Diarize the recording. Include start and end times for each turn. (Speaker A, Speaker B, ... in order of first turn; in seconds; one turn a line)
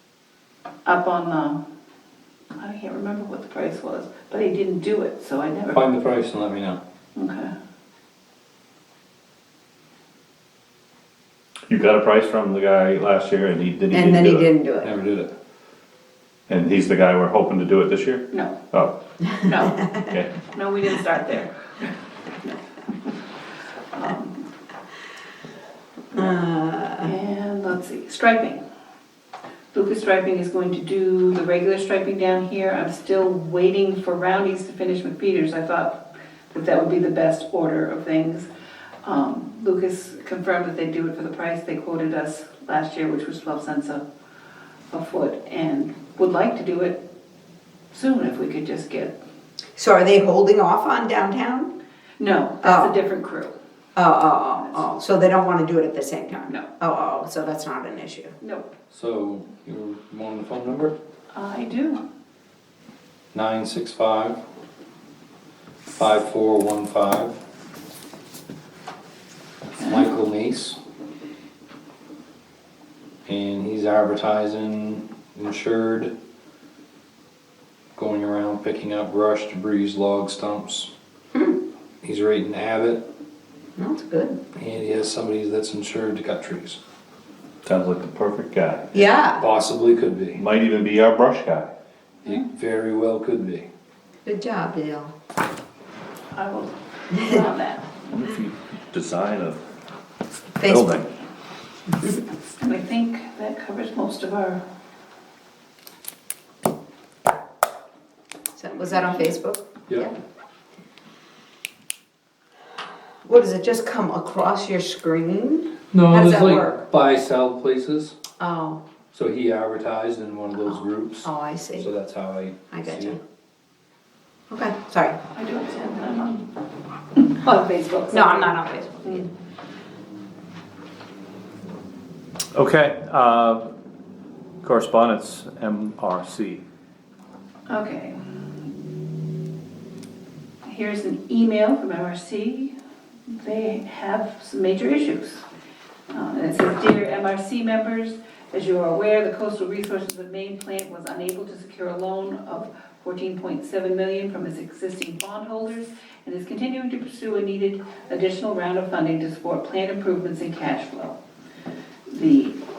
Speaker A: 0.8-1.6
Speaker A: 2.6-5.8
Speaker B: 5.7-6.8
Speaker A: 7.2-7.5
Speaker C: 11.7-14.5
Speaker D: 13.9-14.9
Speaker B: 14.8-15.3
Speaker C: 16.5-18.9
Speaker A: 18.3-18.6
Speaker A: 19.4-19.9
Speaker C: 20.1-20.3
Speaker A: 20.4-21.9
Speaker A: 22.4-23.1
Speaker A: 23.9-24.4
Speaker D: 26.1-27.1
Speaker A: 27.0-28.6
Speaker A: 29.7-38.5
Speaker A: 39.0-44.0
Speaker A: 44.9-47.0
Speaker A: 47.9-49.1
Speaker D: 49.8-51.7
Speaker A: 52.2-53.5
Speaker D: 52.6-52.9
Speaker D: 53.9-58.3
Speaker A: 58.4-58.7
Speaker B: 58.9-60.9
Speaker A: 61.3-62.0
Speaker B: 63.3-64.4
Speaker B: 66.0-67.4
Speaker B: 69.8-70.8
Speaker A: 69.8-70.1
Speaker B: 73.2-76.1
Speaker B: 77.9-80.9
Speaker B: 82.0-83.0
Speaker D: 83.8-84.4
Speaker B: 84.5-86.8
Speaker C: 87.6-89.1
Speaker D: 88.9-89.5
Speaker B: 89.4-90.4
Speaker C: 90.3-91.7
Speaker B: 92.2-93.7
Speaker D: 94.2-95.1
Speaker A: 96.3-97.9
Speaker C: 98.1-99.6
Speaker D: 100.5-101.0
Speaker C: 100.6-101.1
Speaker A: 102.6-104.6
Speaker D: 108.5-110.1
Speaker D: 113.2-116.8
Speaker B: 115.9-118.1
Speaker D: 118.4-118.8
Speaker B: 119.1-123.2
Speaker D: 120.6-121.9
Speaker D: 122.7-123.2
Speaker D: 124.5-125.2
Speaker A: 125.3-126.5
Speaker A: 127.2-129.3
Speaker D: 128.1-129.3
Speaker C: 132.5-133.7
Speaker C: 134.6-136.6
Speaker A: 137.7-138.2
Speaker A: 140.6-142.7
Speaker A: 143.3-145.4
Speaker A: 146.1-161.2
Speaker A: 162.1-162.6